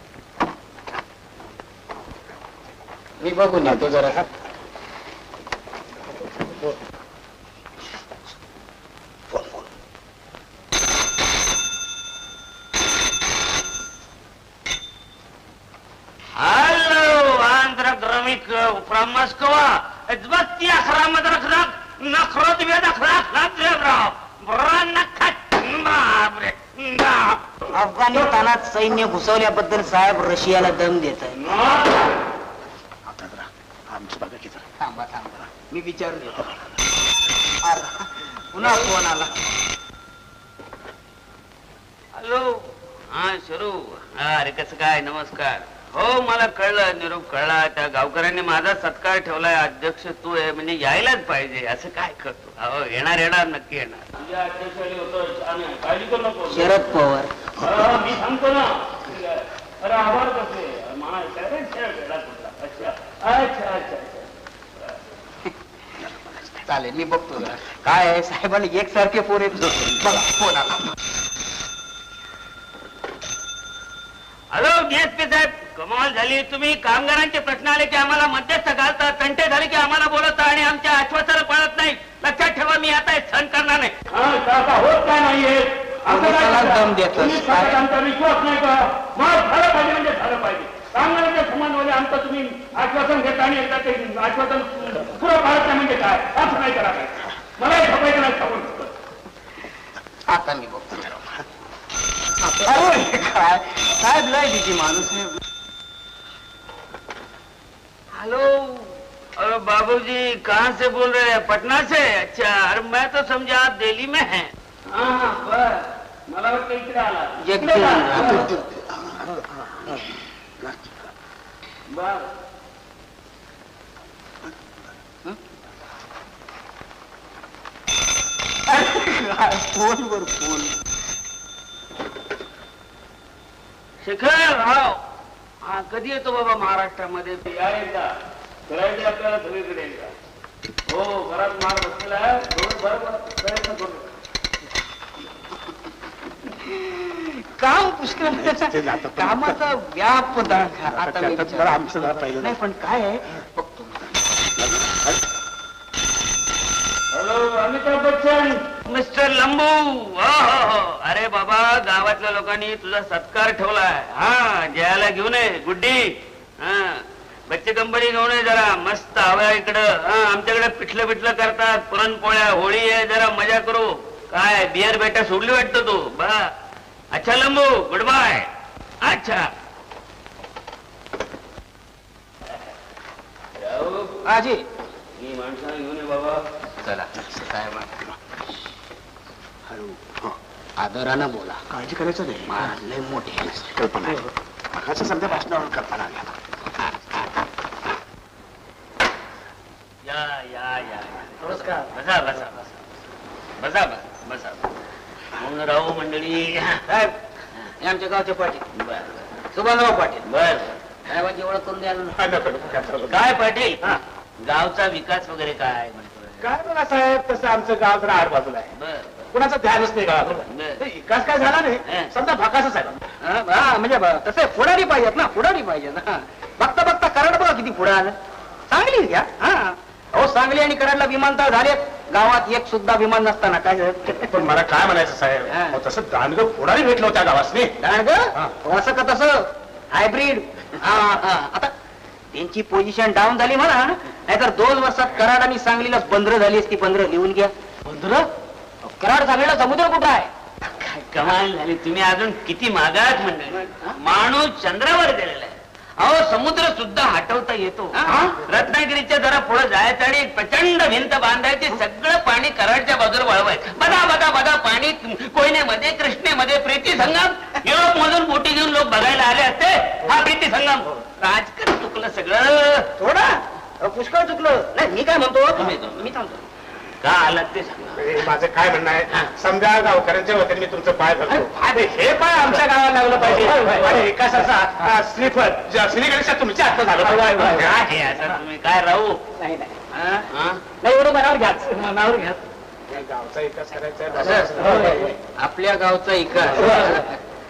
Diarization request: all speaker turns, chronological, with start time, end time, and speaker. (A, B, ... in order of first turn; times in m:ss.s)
0:03.2-0:04.2 A
0:16.4-0:28.3 B
0:27.7-0:31.4 A
0:31.3-0:32.2 B
0:33.0-0:34.7 C
0:34.8-0:36.6 A
0:37.6-0:39.3 A
0:42.1-0:57.0 B
0:56.5-0:57.3 A
0:57.6-1:05.0 B
1:06.2-1:06.4 C
1:06.6-1:10.9 A
1:14.5-1:38.9 B
1:26.1-1:27.8 A
1:40.3-1:41.2 A
1:42.4-1:45.4 A
1:48.1-1:58.6 B
1:57.4-1:58.6 A
1:58.3-2:00.0 C
2:01.9-2:02.3 B
2:08.7-2:10.7 A
2:14.0-2:15.0 B
2:15.6-2:18.1 B
2:18.7-2:20.1 B
2:20.9-2:24.1 B
2:26.6-2:34.1 A
2:28.2-2:29.7 C
2:30.8-2:32.6 C
2:34.6-2:35.1 C
2:37.1-2:56.5 B
2:57.1-2:58.5 B
2:59.0-2:59.5 B
3:03.6-3:04.2 B
3:04.2-3:04.6 A
3:05.2-3:06.4 B
3:06.8-3:08.0 A
3:09.7-3:10.3 C
3:10.8-3:11.6 A
3:11.7-3:12.7 C
3:12.5-3:13.7 A
3:13.6-3:16.3 C
3:20.0-3:22.8 B
3:21.4-3:21.9 A
3:23.6-3:24.7 B
3:25.3-3:26.8 B
3:26.9-3:27.1 A
3:27.8-3:28.6 A
3:28.7-3:29.3 B
3:29.5-3:30.2 A
3:30.2-3:30.8 B
3:31.1-3:32.3 A
3:32.1-3:34.0 C
3:33.1-3:36.5 B
3:36.4-3:38.7 C
3:38.7-3:39.3 B
3:39.3-3:43.0 C
3:40.2-3:40.8 B
3:41.8-3:42.1 B
3:43.2-3:48.2 A
3:48.7-3:54.4 A
3:54.1-3:57.7 C
3:55.5-3:55.8 A
3:57.8-4:01.7 A
4:02.3-4:07.5 A
4:07.8-4:08.3 B
4:08.8-4:10.3 A
4:10.6-4:32.9 B
4:13.7-4:14.0 A
4:17.9-4:18.4 A
4:33.0-4:36.4 A
4:35.6-4:36.1 B
4:37.0-4:38.2 B
4:37.9-4:47.9 C
4:41.3-4:44.1 B
4:47.0-4:49.2 B
4:49.4-4:50.3 A
4:50.3-4:50.6 B
4:50.8-4:52.0 A
4:51.9-4:52.4 B
4:52.9-4:55.1 C
4:54.1-4:57.2 A
4:54.2-4:54.9 B
4:56.4-4:57.1 B